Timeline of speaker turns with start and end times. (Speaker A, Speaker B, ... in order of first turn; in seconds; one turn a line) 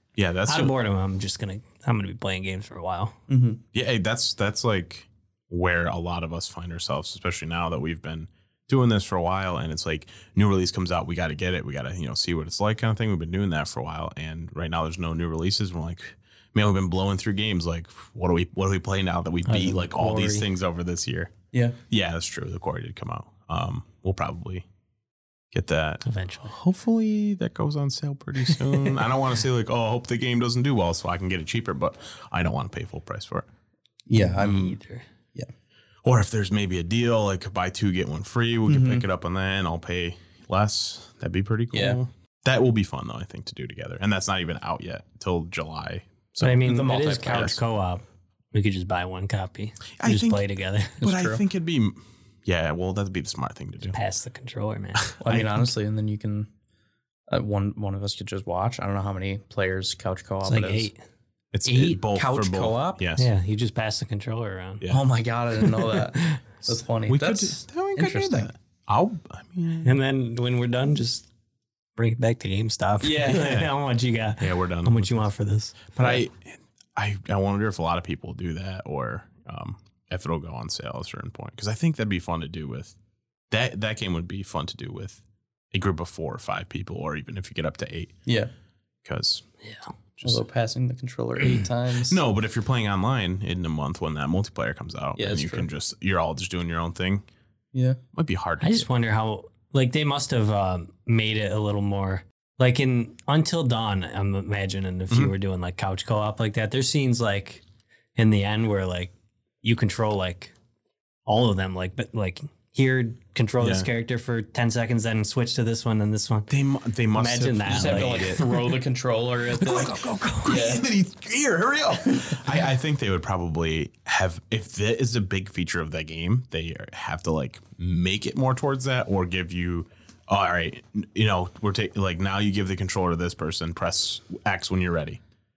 Speaker A: 0.2-0.7
Speaker B: 0.5-3.2
Speaker C: 3.3-3.6
Speaker A: 3.7-21.3
Speaker B: 19.4-20.4
Speaker A: 21.9-24.6
Speaker A: 25.5-33.5
Speaker B: 26.0-26.6
Speaker B: 28.5-28.8
Speaker C: 34.1-34.8
Speaker B: 34.2-35.0
Speaker A: 36.0-46.6
Speaker C: 38.7-39.0
Speaker C: 41.7-42.0
Speaker B: 46.4-51.0
Speaker C: 46.6-47.6
Speaker A: 50.0-50.5
Speaker C: 51.0-51.4
Speaker A: 51.0-54.0
Speaker B: 53.9-55.1
Speaker A: 55.0-55.7
Speaker C: 55.2-56.5
Speaker C: 57.3-60.9
Speaker B: 60.4-61.0
Speaker A: 61.5-63.3
Speaker C: 61.6-63.0
Speaker B: 63.2-64.8
Speaker C: 64.9-68.5
Speaker B: 65.6-66.4
Speaker A: 66.7-70.0
Speaker B: 69.8-71.3
Speaker B: 72.0-76.0
Speaker C: 73.0-73.6
Speaker A: 73.2-73.7
Speaker A: 74.4-75.1
Speaker A: 75.9-82.9
Speaker A: 83.5-88.1
Speaker A: 89.0-89.5
Speaker A: 90.2-90.4
Speaker C: 90.2-92.2
Speaker A: 91.5-97.2
Speaker C: 95.2-95.7
Speaker C: 97.7-98.0
Speaker A: 98.1-98.9
Speaker B: 98.6-107.6
Speaker B: 108.2-109.1
Speaker B: 109.6-110.5
Speaker B: 111.2-116.5
Speaker A: 113.6-113.9
Speaker A: 116.5-118.5
Speaker B: 117.1-118.5
Speaker C: 117.7-120.9
Speaker A: 119.6-135.2